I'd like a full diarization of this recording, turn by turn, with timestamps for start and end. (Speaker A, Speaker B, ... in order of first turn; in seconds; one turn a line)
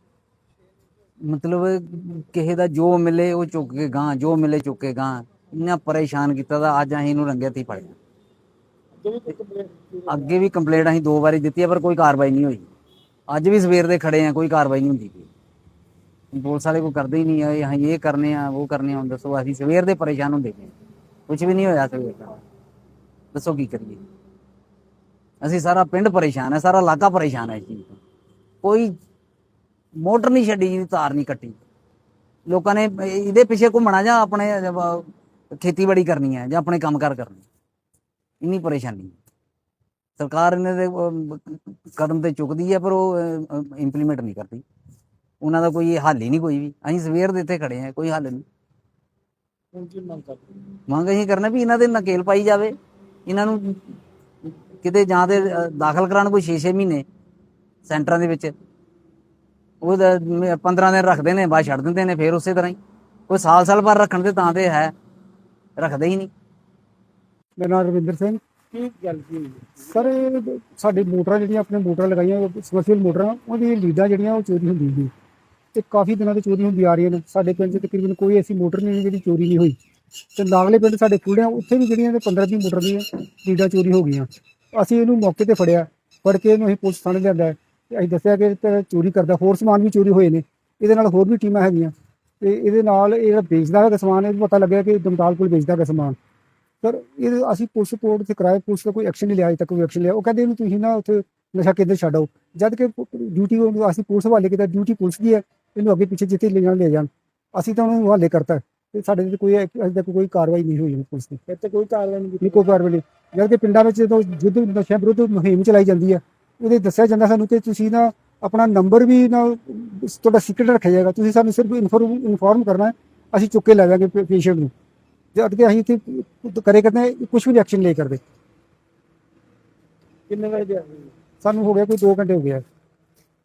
Speaker A: 1.2-8.0
Speaker B: 9.0-10.3
Speaker A: 10.1-12.7
Speaker A: 13.3-15.3
Speaker A: 16.3-20.7
Speaker A: 21.3-22.4
Speaker A: 23.3-24.0
Speaker A: 25.4-28.0
Speaker A: 28.6-28.9
Speaker A: 30.0-31.6
Speaker A: 32.5-37.4
Speaker A: 38.4-39.1
Speaker A: 40.2-44.6
Speaker A: 45.4-48.4
Speaker B: 49.7-50.5
Speaker A: 50.9-54.0
Speaker A: 54.8-57.0
Speaker A: 57.9-58.5
Speaker A: 59.8-62.8
Speaker A: 63.3-64.9
Speaker A: 65.8-66.3
Speaker C: 67.6-68.4
Speaker B: 68.7-70.0
Speaker C: 69.9-75.1
Speaker C: 75.7-79.8
Speaker C: 80.3-96.2
Speaker C: 96.8-111.4
Speaker B: 111.5-112.7
Speaker C: 112.4-124.7
Speaker C: 125.3-128.2
Speaker B: 130.3-131.1
Speaker C: 131.4-132.6